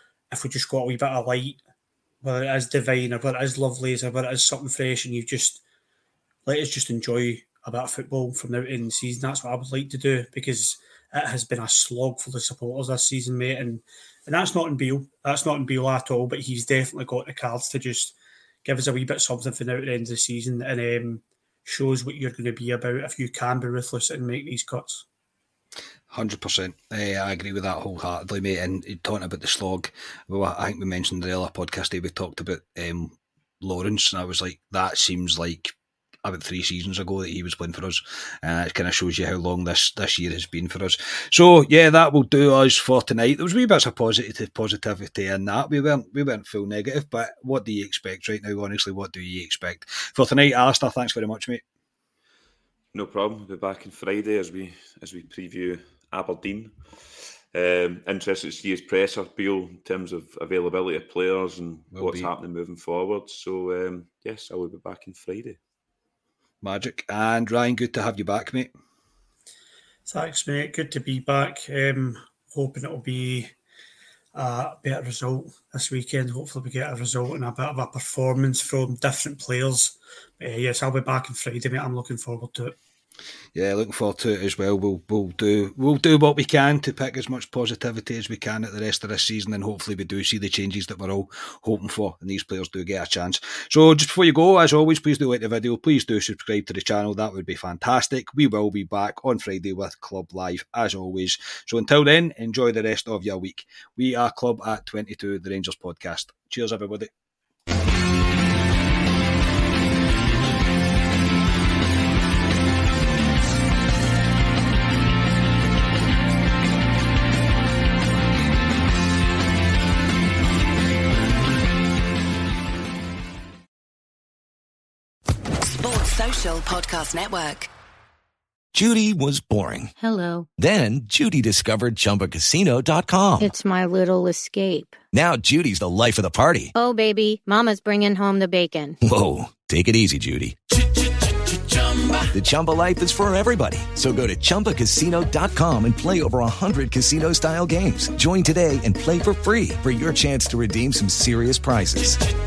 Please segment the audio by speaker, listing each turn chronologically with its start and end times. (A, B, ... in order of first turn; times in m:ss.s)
0:00.3-0:01.6 A
0:02.2-0:05.6 A
0:06.4-0:25.0 A
0:26.1-0:51.6 B
0:52.9-0:56.8 C
0:57.5-1:05.6 C
1:01.9-1:02.3 B
1:06.6-1:08.7 B
1:10.1-1:13.5 A
1:14.3-1:22.8 A
1:23.5-1:47.1 B
2:05.6-2:07.7 D
2:08.7-2:09.9 E
2:10.0-2:10.5 F
2:10.6-2:13.5 E
2:13.4-2:15.0 F
2:15.1-2:16.7 E
2:16.7-2:19.0 F
2:19.0-2:20.6 E
2:22.3-2:32.2 E